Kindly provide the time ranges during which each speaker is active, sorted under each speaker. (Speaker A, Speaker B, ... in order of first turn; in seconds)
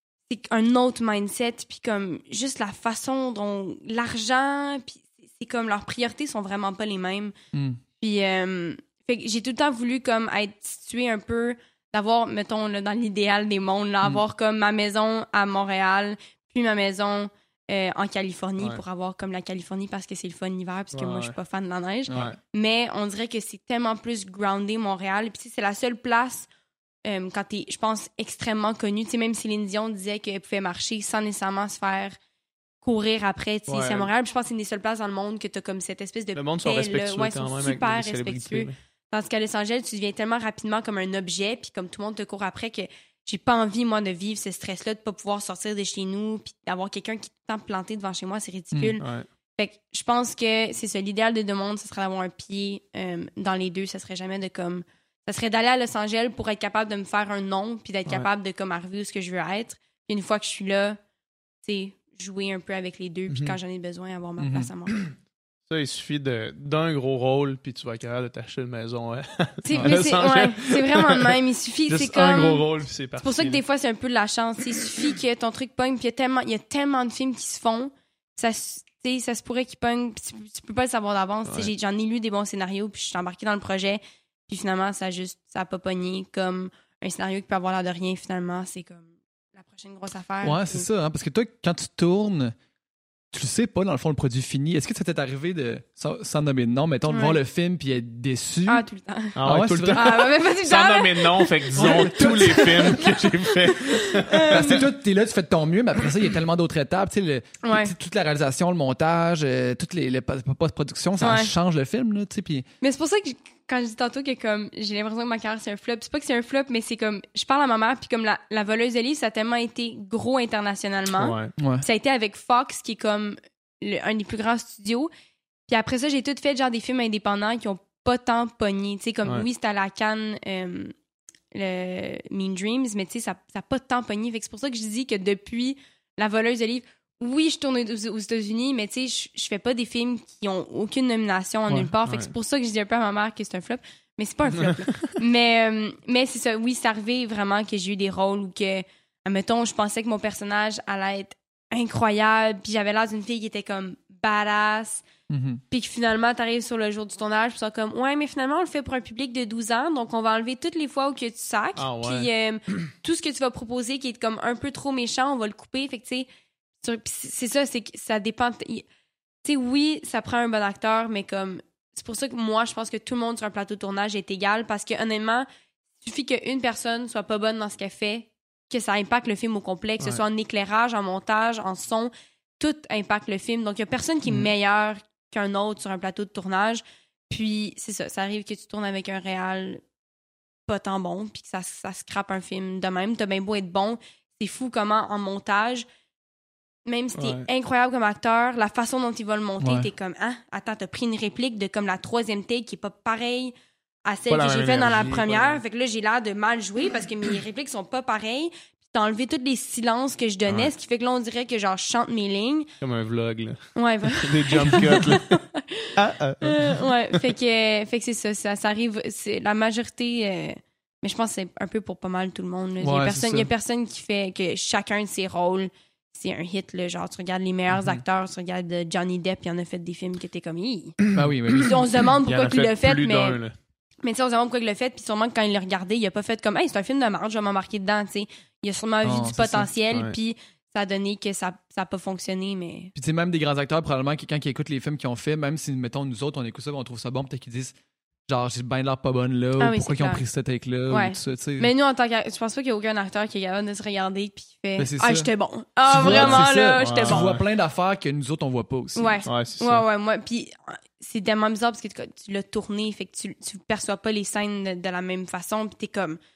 Speaker A: 0.3-7.3, 8.0-26.5, 27.0-32.2, 32.8-49.0, 49.5-61.0, 61.6-65.0, 69.6-72.6, 73.2-90.9, 97.1-97.4, 98.7-99.4, 99.9-104.8, 107.6-107.9, 111.2-111.5, 112.8-125.1, 125.7-130.9, 131.5-155.0, 155.7-166.3, 166.8-168.8, 169.4-175.5, 176.0-189.8, 190.7-195.8, 196.8-203.5, 204.1-212.7, 213.7-231.0, 231.5-233.4, 234.0-242.9, 249.6-250.2, 250.9-257.2, 258.9-266.2
Speaker B: 7.5-7.8, 64.4-64.7, 90.4-92.5, 93.3-98.8, 99.4-100.1, 101.8-103.0, 104.3-112.6, 121.6-121.8, 155.3-155.6, 199.6-199.9, 222.8-223.5, 231.1-231.8, 239.0-239.7, 242.9-247.7, 248.3-251.7, 254.8-255.3, 255.8-259.2
Speaker C: 20.9-21.4, 22.1-22.4, 33.7-34.1, 36.3-38.7, 49.0-49.3, 63.3-63.5, 65.7-71.4, 71.9-73.6, 99.4-104.8, 121.1-121.5, 142.1-142.3, 144.6-145.1, 161.8-162.8, 197.2-197.4, 204.3-205.6, 212.8-215.4, 215.9-217.3, 231.1-231.6, 232.2-233.5, 255.9-257.4, 259.2-259.8